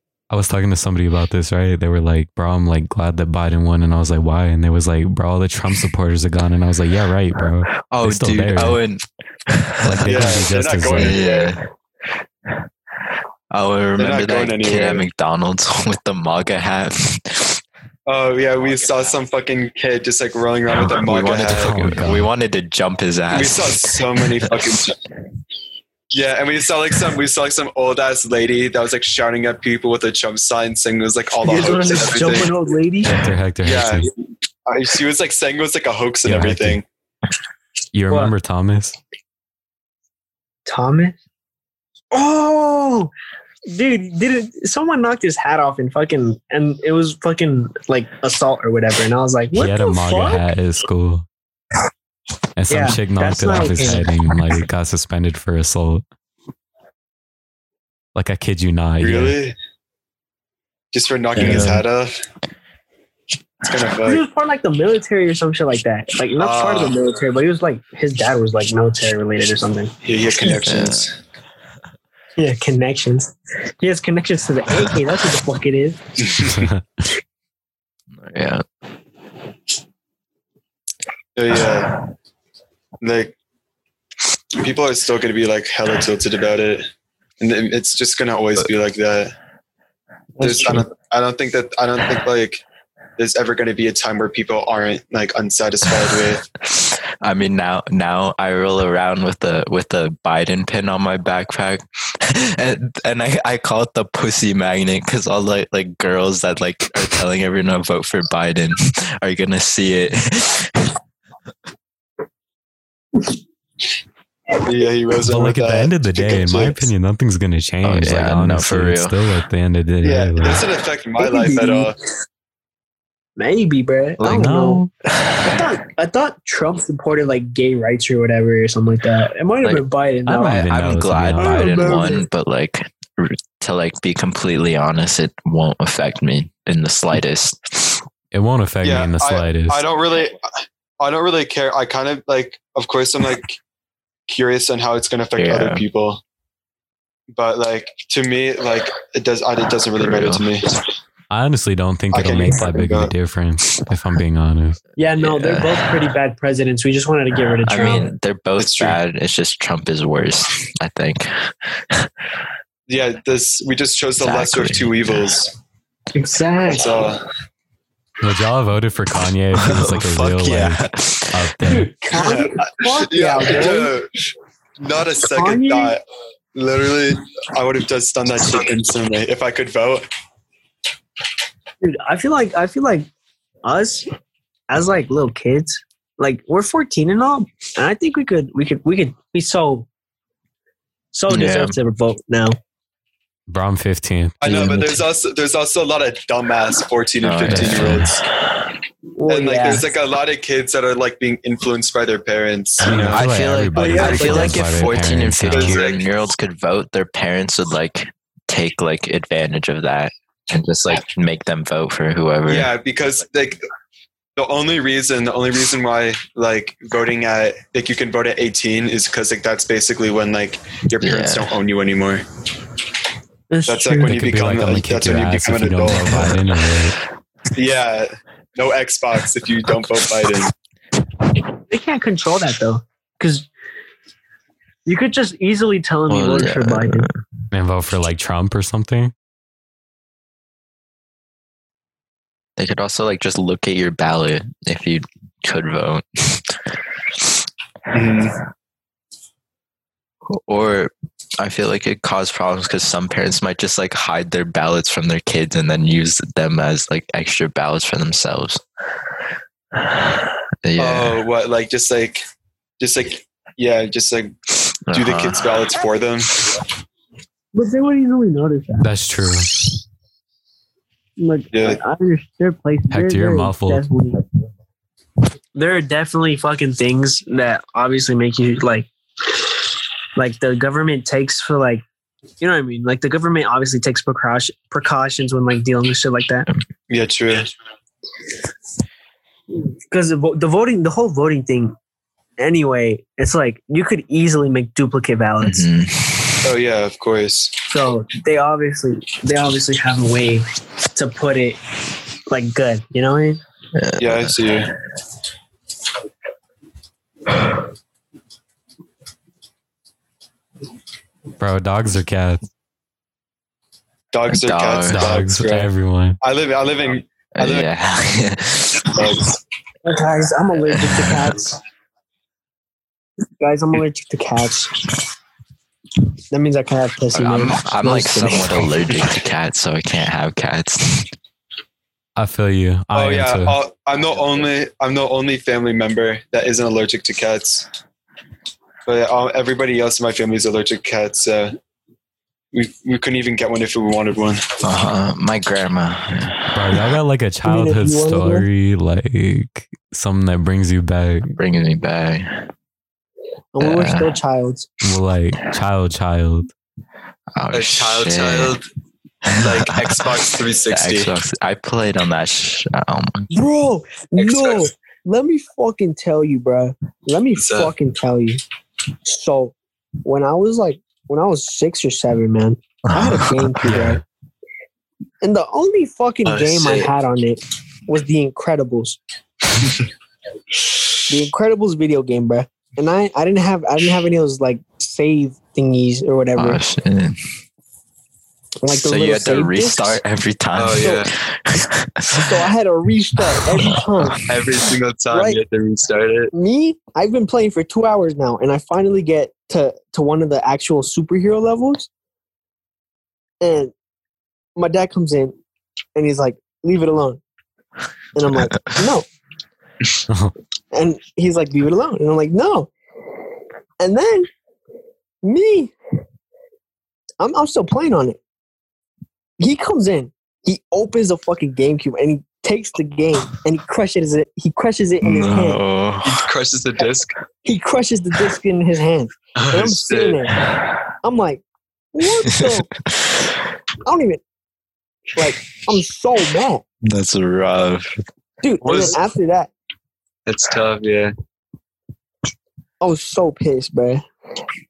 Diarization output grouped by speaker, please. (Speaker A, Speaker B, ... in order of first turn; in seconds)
Speaker A: 0.3-8.8, 9.8-11.2, 21.5-22.3, 33.0-34.1, 36.2-36.8, 37.9-39.0, 49.5-51.2, 52.6-56.0, 58.1-59.4, 76.4-77.0, 115.2-120.6, 124.2-124.9, 130.2-131.6, 138.3-139.8, 151.3-154.8, 168.2-171.9, 193.5-194.4, 197.4-198.1, 202.8-205.8, 224.0-227.0, 237.5-239.1, 268.8-269.5, 272.9-273.8, 311.4-312.4, 314.9-316.2, 332.1-333.6, 346.5-351.4, 354.8-356.5, 373.6-374.0, 410.1-410.3
Speaker B: 7.8-11.7, 13.5-17.6, 20.7-24.8, 61.4-61.8, 70.4-71.0, 78.1-78.6, 95.8-111.0, 117.8-119.1, 125.1-125.7, 130.4-138.0, 145.4-145.8, 149.9-150.5, 155.2-156.0, 157.6-162.1, 164.2-165.3, 169.6-171.4, 191.3-191.8, 194.4-195.0, 197.2-198.1, 202.8-212.7, 221.0-221.6, 236.1-237.1, 242.6-246.6, 250.2-258.6, 259.8-261.2, 264.9-265.6, 295.4-296.5, 303.7-304.6, 314.3-315.2, 317.4-319.0, 320.7-321.4, 327.1-331.1, 344.6-346.9, 351.4-352.5, 353.6-354.1, 357.3-358.6, 359.2-363.3, 372.8-373.8, 386.4-387.2, 388.7-392.5, 393.2-394.5, 408.2-408.9, 425.0-426.2, 432.3-433.4, 436.8-438.0
Speaker C: 10.0-11.6, 14.0-15.1, 18.1-21.7, 23.3-25.0, 26.1-32.5, 33.6-34.1, 34.6-36.8, 59.0-59.5, 60.9-62.1, 63.6-64.2, 66.4-67.0, 70.0-71.2, 81.3-81.9, 83.0-83.3, 84.5-86.9, 87.4-89.3, 90.4-92.6, 93.2-96.4, 114.6-116.9, 120.0-121.9, 138.8-140.4, 141.0-143.6, 144.3-146.2, 147.3-150.7, 152.1-153.1, 158.6-159.0, 162.9-165.5, 166.7-167.2, 172.1-174.1, 174.8-176.0, 176.5-180.1, 194.4-198.2, 199.3-203.2, 203.9-204.4, 205.5-206.0, 212.4-213.6, 214.3-222.2, 223.7-226.3, 227.5-230.5, 247.9-248.3, 260.8-262.2, 262.8-264.3, 264.9-266.3, 271.5-271.8, 286.9-287.5, 296.4-297.5, 304.0-304.7, 314.1-317.7, 318.9-319.3, 332.9-337.7, 338.9-341.6, 342.5-344.6, 357.5-358.6, 359.3-361.1, 364.2-364.7, 367.4-367.7, 376.2-376.9, 390.5-391.1, 394.3-396.3, 426.0-427.1, 429.4-430.2, 438.6-439.0, 440.2-441.1
Speaker D: 31.3-33.2, 40.7-41.1, 42.1-43.1, 43.7-50.4, 52.7-54.1, 64.0-69.9, 72.4-76.5, 90.4-90.9, 121.2-121.9, 123.3-124.8, 125.4-130.7, 131.4-132.2, 155.0-158.1, 166.1-167.0, 171.6-173.9, 175.3-175.9, 181.8-183.1, 183.6-184.1, 184.7-189.9, 191.1-192.6, 199.2-199.9, 203.8-204.6, 223.5-224.2, 231.7-233.5, 234.8-237.1, 267.5-268.9, 271.2-274.2, 275.5-278.9, 280.1-281.8, 282.4-286.5, 289.5-291.7, 292.4-295.7, 297.7-301.6, 302.3-303.4, 319.8-321.6, 323.4-324.9, 326.3-328.7, 347.4-348.5, 353.5-354.7, 363.3-368.4, 369.0-374.0, 375.2-379.0, 381.1-386.6, 388.6-390.0, 390.8-391.1, 392.1-394.2, 395.1-395.4, 396.3-401.9, 403.4-403.7, 404.6-405.4, 405.9-407.2, 408.1-409.1, 410.7-412.7, 413.8-414.3, 415.2-415.7, 417.2-418.2, 419.4-425.6, 427.4-430.4, 431.0-431.4, 431.9-432.7, 433.8-434.2, 435.1-436.6, 438.4-439.5, 442.8-444.0